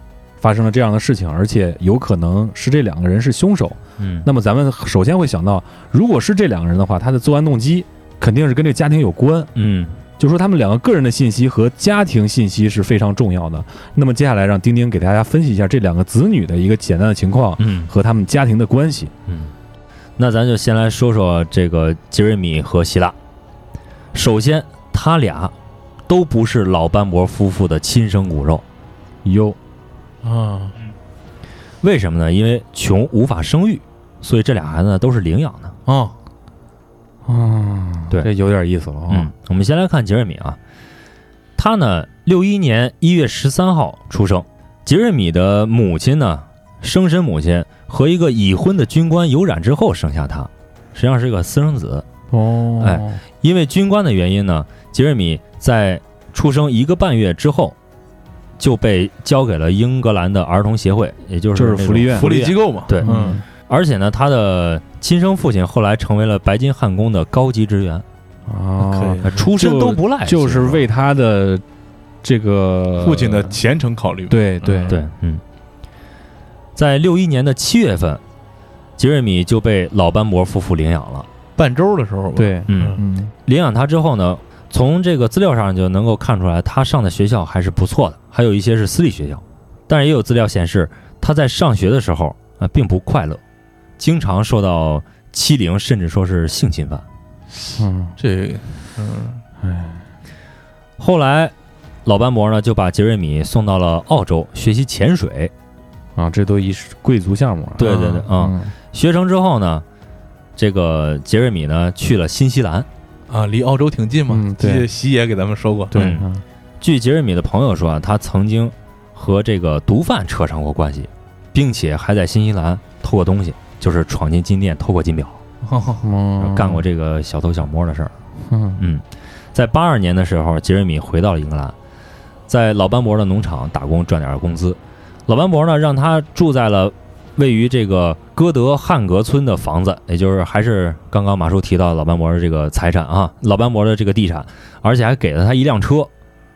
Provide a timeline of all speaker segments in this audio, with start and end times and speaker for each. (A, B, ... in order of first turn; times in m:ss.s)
0:00.4-0:09.5 A
0:04.0-0:04.3 B
0:09.5-0:10.0 B
0:10.2-0:19.1 A
0:17.6-0:17.9 B
0:19.3-0:19.5 B
0:20.2-0:23.2 B
0:24.1-0:25.5 B
0:26.1-0:28.6 B
0:29.2-0:29.6 A
0:30.2-0:30.8 C
0:31.8-0:35.8 B
0:35.9-0:36.1 C
0:37.2-0:39.3 A
0:39.1-0:40.6 B
0:41.6-0:52.0 B
0:52.3-0:53.2 A
0:52.8-0:57.8 B
0:58.6-1:08.0 B
1:01.5-1:02.4 A
1:02.1-1:03.4 C
1:03.0-1:03.4 A
1:08.5-1:11.6 A
1:08.8-1:09.4 C
1:09.2-1:10.8 B
1:12.2-1:13.6 A
1:13.0-1:15.0 C
1:14.3-1:15.0 A
1:14.9-1:15.4 B
1:16.8-1:18.2 B
1:19.0-1:21.3 B
1:21.6-1:23.0 C
1:22.4-1:23.3 A
1:22.7-1:33.4 B
1:34.0-1:37.0 B
1:37.8-1:38.2 A
1:38.2-1:39.4 C
1:39.6-1:40.0 A
1:41.0-1:41.5 B
1:42.0-1:45.5 B
1:46.2-1:48.7 A
1:47.8-1:49.8 B
1:47.8-1:48.3 C
1:50.6-1:52.9 B
1:53.3-1:56.1 C
1:54.3-1:54.9 A
1:55.9-1:56.4 A
1:55.9-1:56.2 B
1:56.8-2:05.4 B
2:05.6-2:06.0 C
2:06.0-2:06.8 A
2:06.4-2:08.1 B
2:08.4-2:08.8 A
2:08.8-2:11.7 B
2:12.5-2:26.1 B